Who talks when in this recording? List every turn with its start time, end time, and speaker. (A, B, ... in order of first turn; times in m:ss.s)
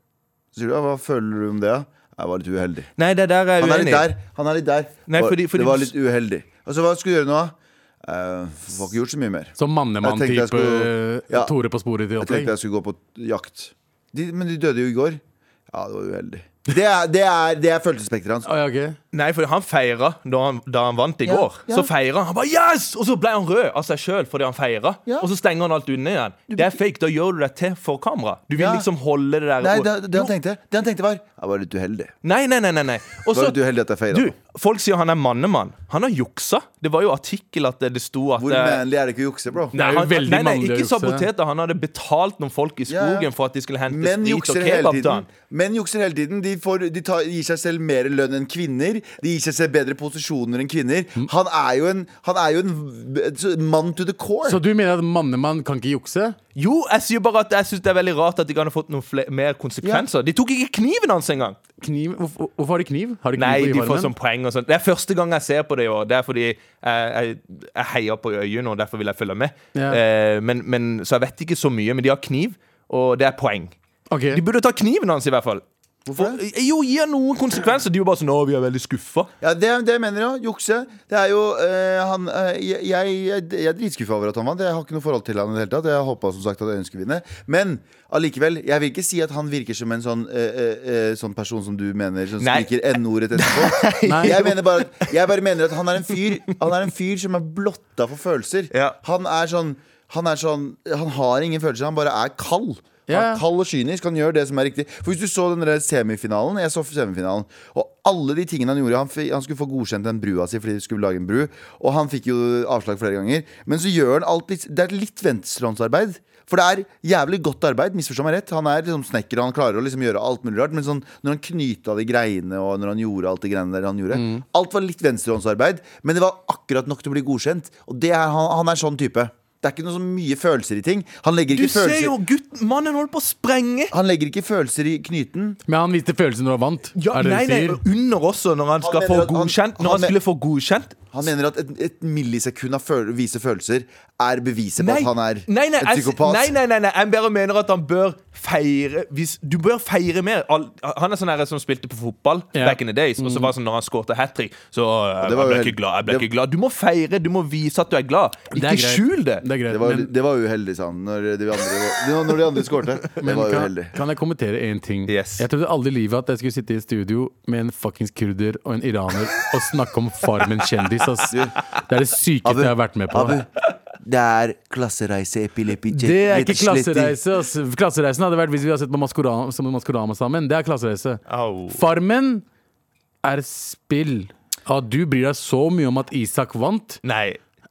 0:00.5-0:02.9 A
0:03.0-0:04.1 B
0:03.6-0:11.5 A
0:05.1-0:05.9 B
0:09.6-0:12.5 C
0:12.2-0:18.5 A
0:18.4-0:19.0 C
0:19.1-0:30.3 B
0:21.2-0:21.9 A
0:26.5-0:26.8 A
0:28.6-0:28.9 A
0:29.6-0:32.1 A
0:32.2-0:33.6 B
0:33.3-0:34.3 A
0:34.1-0:38.8 B
0:38.4-0:39.8 A
0:39.7-0:45.3 B
0:39.7-0:41.3 C
0:42.9-0:43.3 A
0:43.9-0:54.6 A
0:54.4-0:56.4 C
0:56.6-1:01.6 B
1:01.8-1:04.1 C
1:03.4-1:13.7 B
1:09.8-1:10.0 C
1:14.1-1:14.4 C
1:14.3-1:19.3 B
1:16.1-1:16.4 A
1:19.4-2:12.2 A
1:32.4-1:32.7 B
1:33.4-1:35.1 B
1:34.0-1:34.4 C
1:43.1-1:43.4 C
2:04.1-2:04.4 C
2:11.5-2:14.0 B
2:13.9-2:15.6 A
2:15.7-2:17.8 C
2:17.0-2:21.1 B
2:18.8-2:20.2 A
2:21.1-2:26.6 A
2:24.8-2:39.5 B
2:32.6-2:33.5 C
2:35.2-2:36.3 A
2:38.5-2:40.1 C
2:39.7-2:44.0 A
2:43.2-2:53.4 C
2:45.1-2:45.4 B
2:51.3-2:51.6 A
2:52.4-2:57.2 A
2:55.9-3:02.4 C
3:01.3-3:01.8 B
3:03.2-3:07.0 C
3:07.0-3:07.4 B